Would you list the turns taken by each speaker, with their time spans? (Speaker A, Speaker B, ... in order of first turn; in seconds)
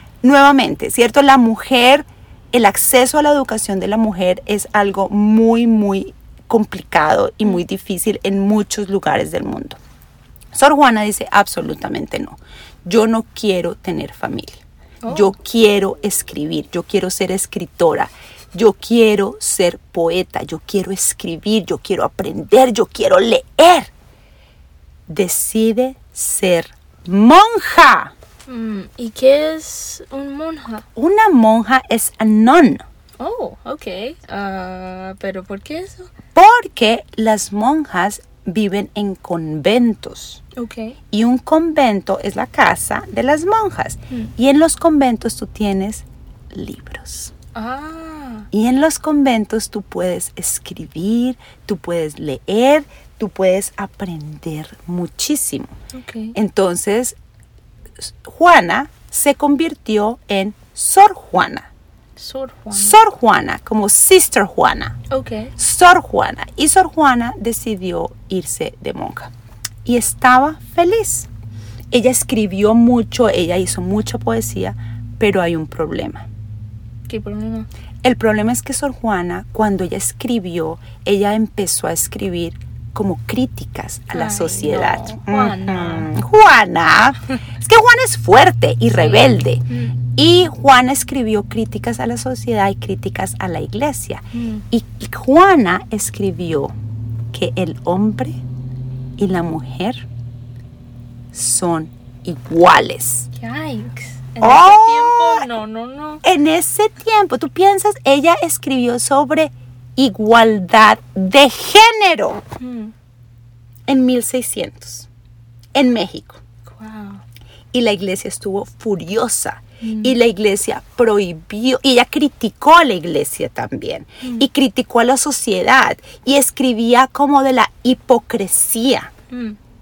Speaker A: 0.2-9.8, 10.5-23.9, 25.1-28.1, 30.9-32.8, 36.3-40.4, 41.1-47.3, 48.5-55.7, 56.3-57.2, 58.0-61.7, 62.7-65.0, 65.6-69.3, 69.8-71.3, 71.9-76.2, 78.0-89.6, 90.1-96.7, 97.3-98.4, 99.2-100.0, 101.3-103.3, 104.4-105.5, 106.2-112.4, 113.9-115.1, 115.7-116.4, 117.7-129.1
Speaker B: 15.0-15.3, 28.5-30.8, 33.2-36.1, 40.5-41.0, 47.5-48.5, 55.9-56.4, 62.2-63.0, 65.1-65.5, 77.1-77.7, 84.1-86.1, 88.9-90.0, 94.3-94.6, 103.3-106.2, 112.6-112.9, 116.7-117.2, 119.8-120.2, 124.2-124.5, 129.3-129.6